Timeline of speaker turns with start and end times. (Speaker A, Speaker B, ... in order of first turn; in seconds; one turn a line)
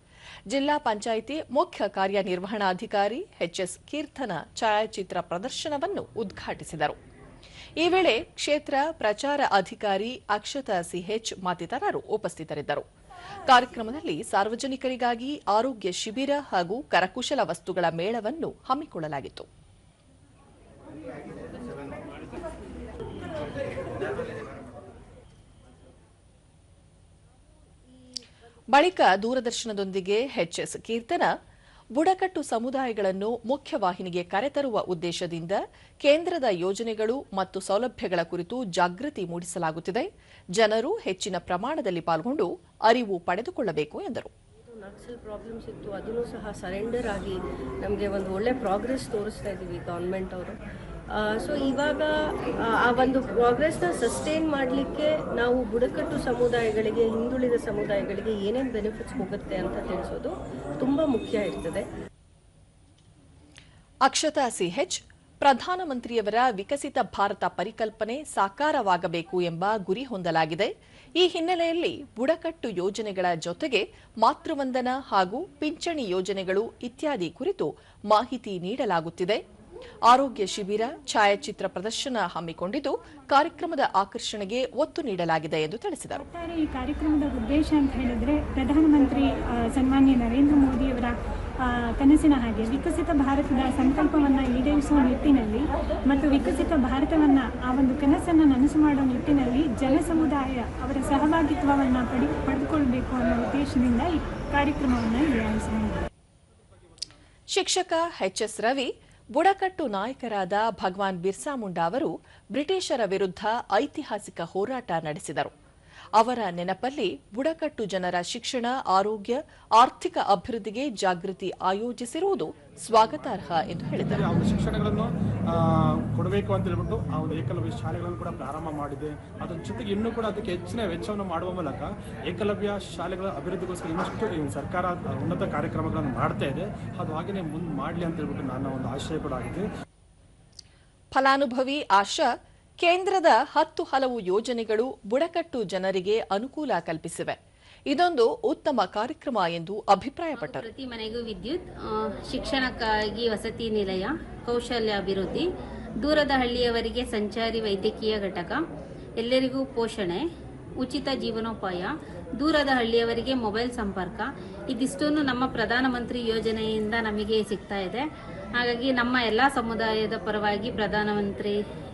Speaker A: 0.5-7.0
Speaker A: 7.8-12.8
Speaker A: 13.5-19.5
Speaker A: 28.7-31.3
Speaker A: 32.0-44.3
Speaker B: 44.7-50.6
Speaker B: 51.1-52.1
Speaker B: 52.7-61.8
Speaker A: 64.1-79.4
Speaker A: 80.1-86.2
Speaker C: 86.2-106.0
Speaker A: 107.5-115.5
Speaker A: 116.2-124.2
Speaker D: 124.1-139.7
Speaker A: 141.2-142.3
Speaker A: 142.8-147.4
Speaker A: 147.9-150.7
Speaker E: 150.4-155.4
Speaker E: 156.0-158.6
Speaker E: 159.2-160.2
Speaker E: 160.8-168.0
Speaker E: 168.6-171.6